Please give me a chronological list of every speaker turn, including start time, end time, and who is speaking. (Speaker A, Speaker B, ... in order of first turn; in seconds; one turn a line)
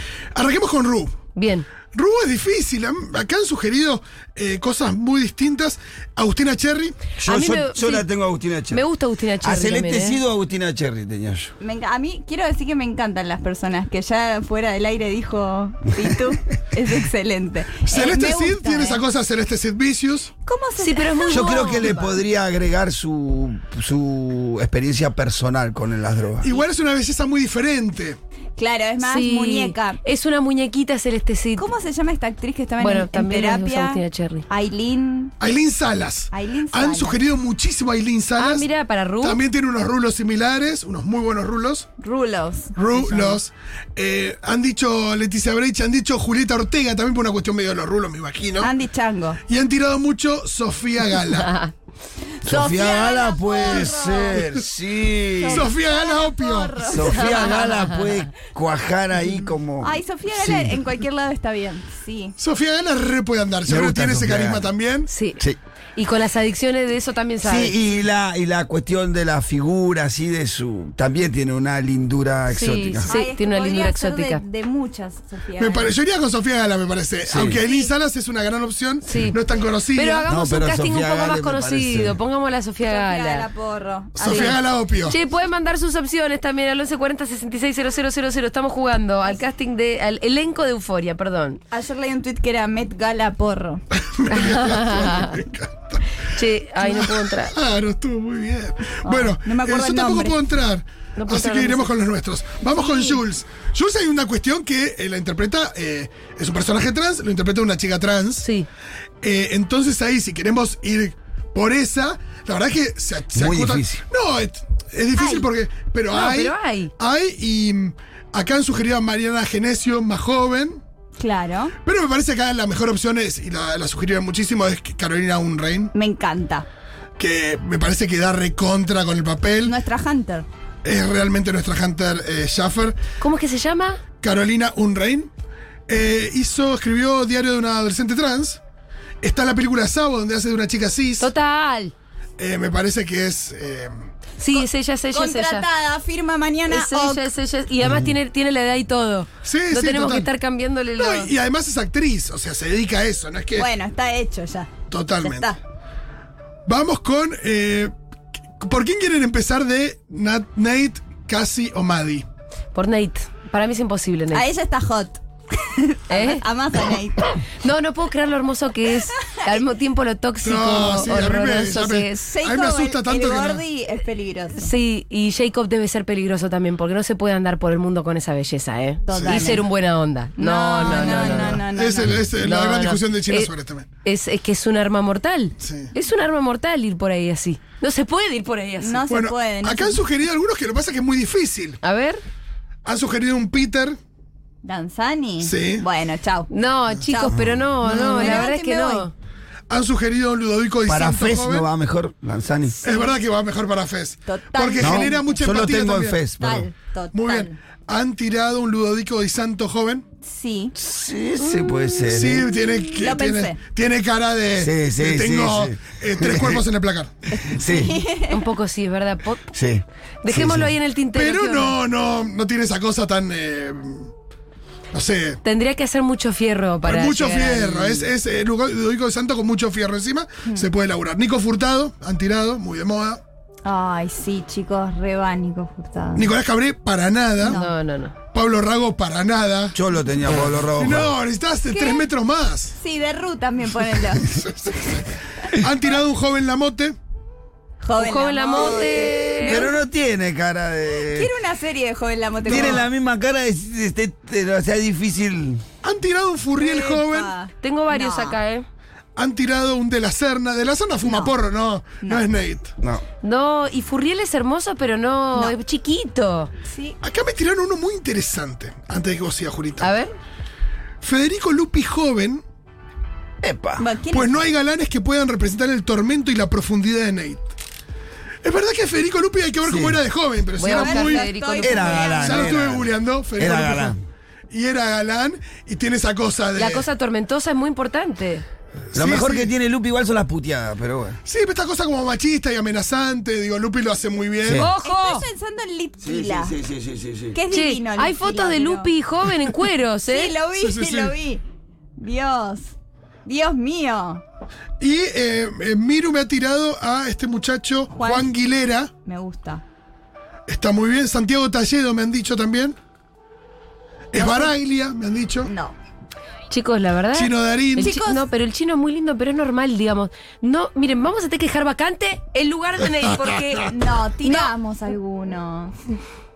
Speaker A: 0.3-1.1
Speaker B: 1.3-1.6
Speaker A: 1.9-7.0
Speaker C: 7.2-8.8
Speaker B: 7.2-8.1
Speaker B: 8.7-10.2
Speaker C: 9.4-11.5
Speaker D: 11.6-19.0
Speaker A: 17.8-20.3
Speaker D: 20.4-22.1
Speaker B: 20.8-21.9
Speaker C: 21.3-26.5
Speaker A: 26.4-28.2
Speaker D: 28.6-30.0
Speaker B: 29.0-31.6
Speaker D: 31.6-35.3
Speaker B: 32.8-34.4
Speaker A: 35.4-38.7
Speaker D: 36.3-37.2
Speaker B: 38.4-39.4
Speaker A: 39.2-41.9
Speaker D: 42.0-43.4
Speaker A: 42.8-48.7
Speaker D: 48.6-49.4
Speaker A: 49.5-51.5
Speaker B: 51.4-51.7
Speaker D: 52.4-54.4
Speaker C: 52.4-55.7
Speaker A: 53.7-54.6
Speaker D: 55.4-57.7
Speaker A: 55.5-56.8
Speaker C: 56.8-60.8
Speaker B: 57.0-58.2
Speaker D: 59.8-62.4
Speaker A: 62.4-65.1
Speaker C: 63.6-64.7
Speaker B: 65.1-65.4
Speaker B: 66.0-67.7
Speaker C: 67.4-73.1
Speaker B: 72.5-74.4
Speaker D: 73.0-75.9
Speaker A: 75.6-80.2
Speaker C: 77.2-77.6
Speaker D: 77.4-77.9
Speaker B: 79.0-79.4
Speaker B: 79.9-83.5
Speaker C: 80.2-82.2
Speaker D: 82.8-84.6
Speaker A: 84.2-85.2
Speaker B: 84.2-91.6
Speaker D: 91.7-93.8
Speaker A: 94.0-96.2
Speaker B: 94.3-95.4
Speaker B: 96.2-97.5
Speaker A: 96.8-108.5
Speaker D: 99.0-100.3
Speaker B: 101.2-101.9
Speaker D: 102.8-103.1
Speaker B: 108.4-108.7
Speaker A: 109.2-120.8
Speaker C: 113.3-114.0
Speaker D: 115.2-115.5
Speaker B: 116.1-116.9
Speaker D: 121.2-121.7
Speaker A: 121.8-125.9
Speaker D: 125.9-126.7
Speaker A: 127.2-129.7
Speaker D: 129.6-130.4
Speaker A: 130.8-133.0
Speaker B: 133.2-134.0
Speaker A: 134.2-135.3
Speaker A: 135.9-138.6
Speaker A: 139.2-141.3
Speaker B: 141.2-141.9
Speaker A: 142.4-143.9
Speaker B: 144.4-145.6
Speaker D: 144.5-147.3
Speaker B: 146.7-151.3
Speaker C: 147.8-148.1
Speaker A: 149.4-150.3
Speaker A: 151.0-153.7
Speaker D: 153.5-155.6
Speaker A: 154.9-155.5
Speaker A: 156.7-157.9
Speaker A: 158.6-162.2
Speaker B: 162.7-164.4
Speaker D: 164.3-167.4
Speaker B: 166.1-166.4
Speaker B: 167.6-172.3
Speaker D: 169.2-169.6
Speaker A: 170.4-173.6
Speaker D: 172.2-174.7
Speaker B: 174.6-181.6
Speaker D: 179.1-179.6
Speaker A: 179.1-179.6
Speaker D: 180.4-182.2
Speaker A: 180.8-183.9
Speaker B: 182.3-183.5
Speaker B: 184.0-189.1
Speaker A: 185.6-185.9
Speaker D: 188.8-190.0
Speaker A: 189.1-191.8
Speaker B: 191.8-192.2
Speaker A: 192.8-194.0
Speaker D: 194.6-196.5
Speaker A: 195.4-195.8
Speaker B: 196.5-199.1
Speaker D: 197.1-197.3
Speaker C: 197.3-197.7
Speaker A: 197.8-198.5
Speaker D: 198.1-199.1
Speaker A: 199.7-201.7
Speaker C: 200.8-202.8
Speaker D: 202.8-203.1
Speaker A: 202.8-206.2
Speaker D: 204.2-205.2
Speaker C: 204.8-206.7
Speaker D: 206.4-207.6
Speaker A: 207.1-210.0
Speaker D: 210.2-210.7
Speaker C: 210.7-212.5
Speaker B: 211.4-212.0
Speaker A: 212.1-217.3
Speaker D: 213.0-213.6
Speaker C: 214.6-216.6
Speaker D: 217.3-218.4
Speaker C: 217.5-218.0
Speaker B: 218.3-219.5
Speaker C: 219.5-220.7
Speaker B: 220.2-221.8
Speaker A: 221.1-224.1
Speaker A: 224.9-225.4
Speaker B: 225.4-228.1
Speaker A: 226.8-233.2
Speaker D: 233.6-236.3
Speaker A: 236.1-237.6
Speaker D: 237.4-237.7
Speaker B: 237.4-238.1
Speaker A: 238.3-242.8
Speaker C: 239.7-241.1
Speaker D: 241.7-242.1
Speaker D: 242.8-245.1
Speaker A: 244.3-244.9
Speaker A: 245.4-246.9
Speaker D: 247.8-249.8
Speaker B: 248.0-249.7
Speaker C: 249.4-251.3
Speaker D: 251.0-252.9
Speaker C: 252.4-255.6
Speaker A: 252.5-252.8
Speaker A: 255.8-257.3
Speaker D: 256.6-258.4
Speaker B: 257.6-258.6
Speaker A: 259.1-262.7
Speaker D: 261.1-261.3
Speaker B: 263.2-266.5
Speaker D: 266.6-267.0
Speaker A: 267.0-269.9
Speaker B: 269.8-270.1
Speaker A: 271.0-272.4
Speaker C: 273.4-273.8
Speaker D: 273.8-274.4
Speaker A: 274.1-277.4
Speaker A: 278.4-281.3
Speaker C: 279.6-280.0
Speaker B: 280.6-282.2
Speaker D: 280.6-282.6
Speaker C: 281.6-284.0
Speaker A: 282.1-283.9
Speaker A: 284.5-286.9
Speaker B: 286.6-288.4
Speaker A: 288.9-289.5
Speaker C: 288.9-291.2
Speaker A: 291.2-294.7
Speaker C: 294.4-294.7
Speaker B: 294.6-295.2
Speaker D: 294.8-296.6
Speaker C: 296.0-297.4
Speaker D: 297.3-298.9
Speaker B: 297.5-300.4
Speaker D: 300.1-301.4
Speaker A: 300.6-301.1
Speaker D: 302.0-302.7
Speaker D: 303.2-304.2
Speaker A: 304.8-308.9
Speaker D: 307.9-308.3
Speaker D: 309.0-309.6
Speaker A: 310.5-312.8
Speaker A: 314.1-315.5
Speaker D: 314.1-314.5
Speaker D: 315.4-315.7
Speaker B: 316.5-323.7
Speaker A: 317.1-317.9
Speaker D: 317.8-318.2
Speaker A: 323.0-323.7
Speaker D: 323.6-325.8
Speaker B: 324.2-324.5